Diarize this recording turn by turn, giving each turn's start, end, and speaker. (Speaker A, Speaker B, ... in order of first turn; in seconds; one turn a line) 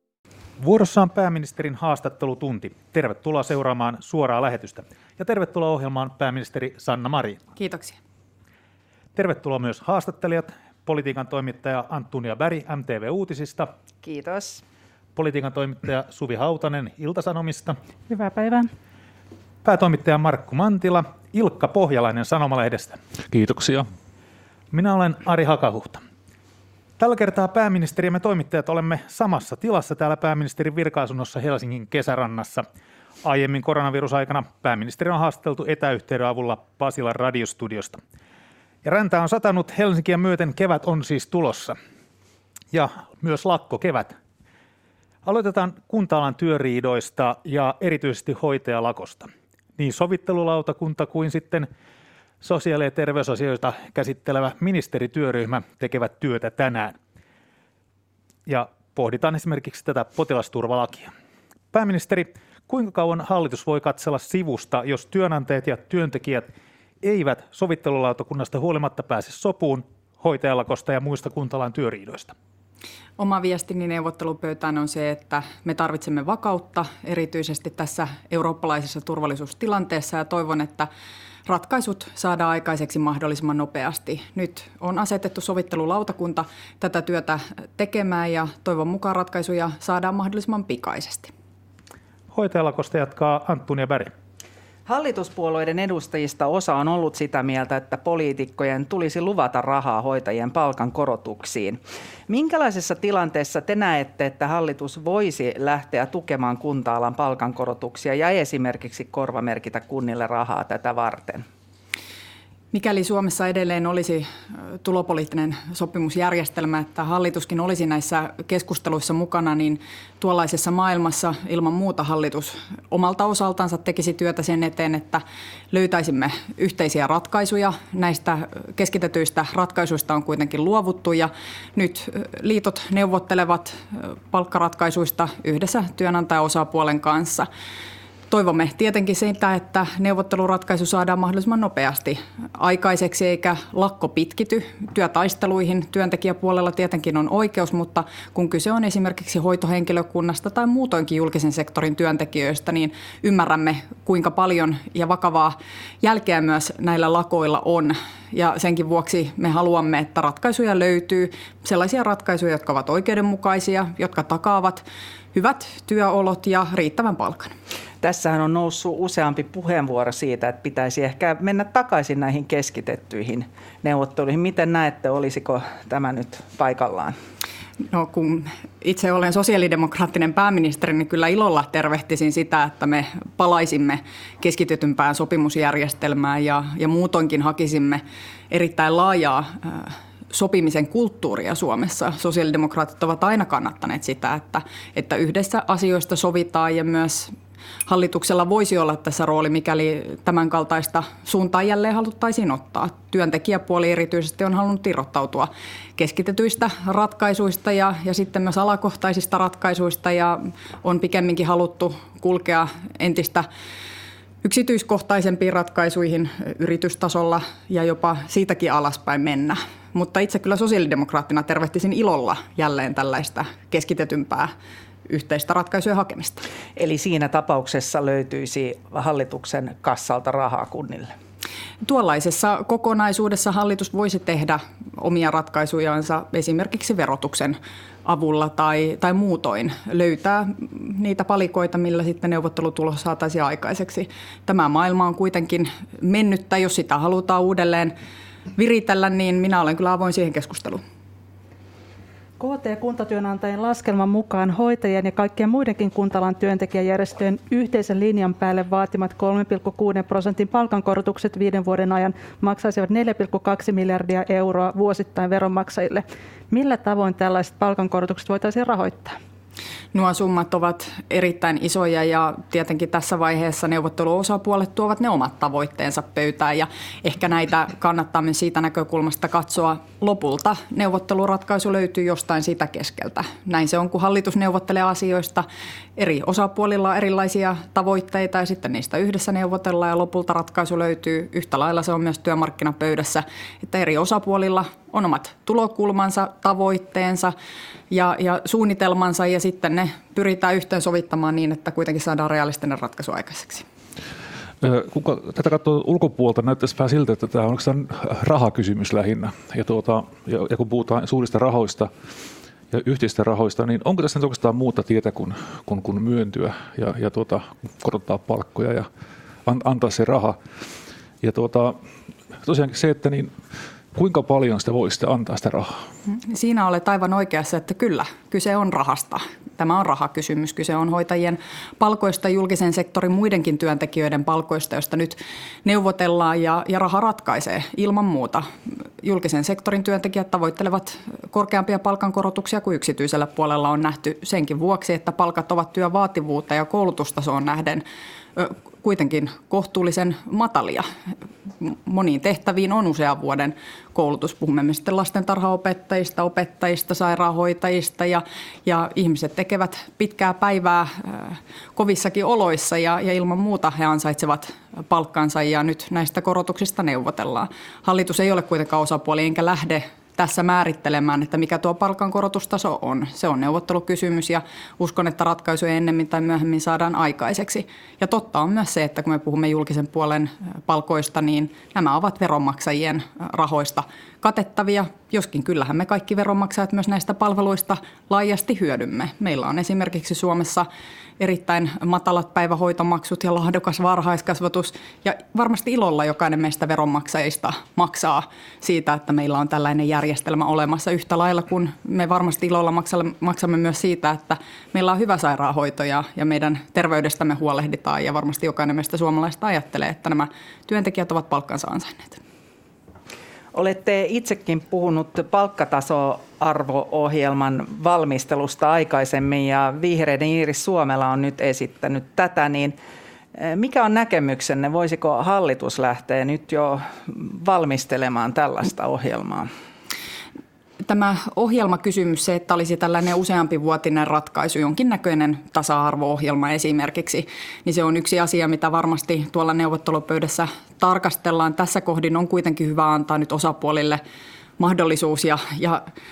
Speaker A: 0.6-7.4
Speaker B: 7.6-8.0
Speaker A: 9.2-13.7
Speaker C: 14.0-14.6
Speaker A: 15.2-17.8
Speaker D: 18.1-18.7
Speaker A: 19.6-23.0
Speaker E: 23.3-23.9
Speaker A: 24.7-26.0
Speaker A: 27.0-32.7
Speaker A: 33.2-38.0
Speaker A: 38.8-41.8
Speaker A: 42.7-44.2
Speaker A: 45.2-51.7
Speaker A: 52.4-57.0
Speaker A: 58.5-61.1
Speaker A: 61.7-72.3
Speaker B: 73.2-80.9
Speaker B: 81.5-91.3
Speaker A: 92.3-94.1
Speaker C: 94.9-111.5
Speaker B: 112.7-137.5
Speaker B: 138.3-167.5
Speaker C: 168.0-177.2
Speaker B: 177.9-197.3
Speaker B: 197.9-213.5
Speaker B: 214.4-224.5
Speaker B: 225.1-226.5
Speaker C: 226.8-231.1
Speaker B: 231.8-247.9
Speaker B: 248.6-250.8
Speaker D: 252.4-269.2
Speaker B: 269.9-285.5
Speaker B: 286.0-297.3
Speaker B: 297.9-303.7
Speaker E: 304.6-311.9
Speaker E: 312.7-318.9
Speaker E: 319.4-320.4
Speaker E: 321.2-321.8
Speaker E: 322.4-323.3
Speaker E: 323.9-325.7
Speaker B: 326.1-347.8
Speaker B: 348.4-350.9
Speaker B: 351.6-390.7
Speaker B: 391.2-412.2
Speaker C: 413.5-422.8
Speaker C: 423.4-429.5
Speaker B: 430.9-444.0
Speaker B: 444.6-445.9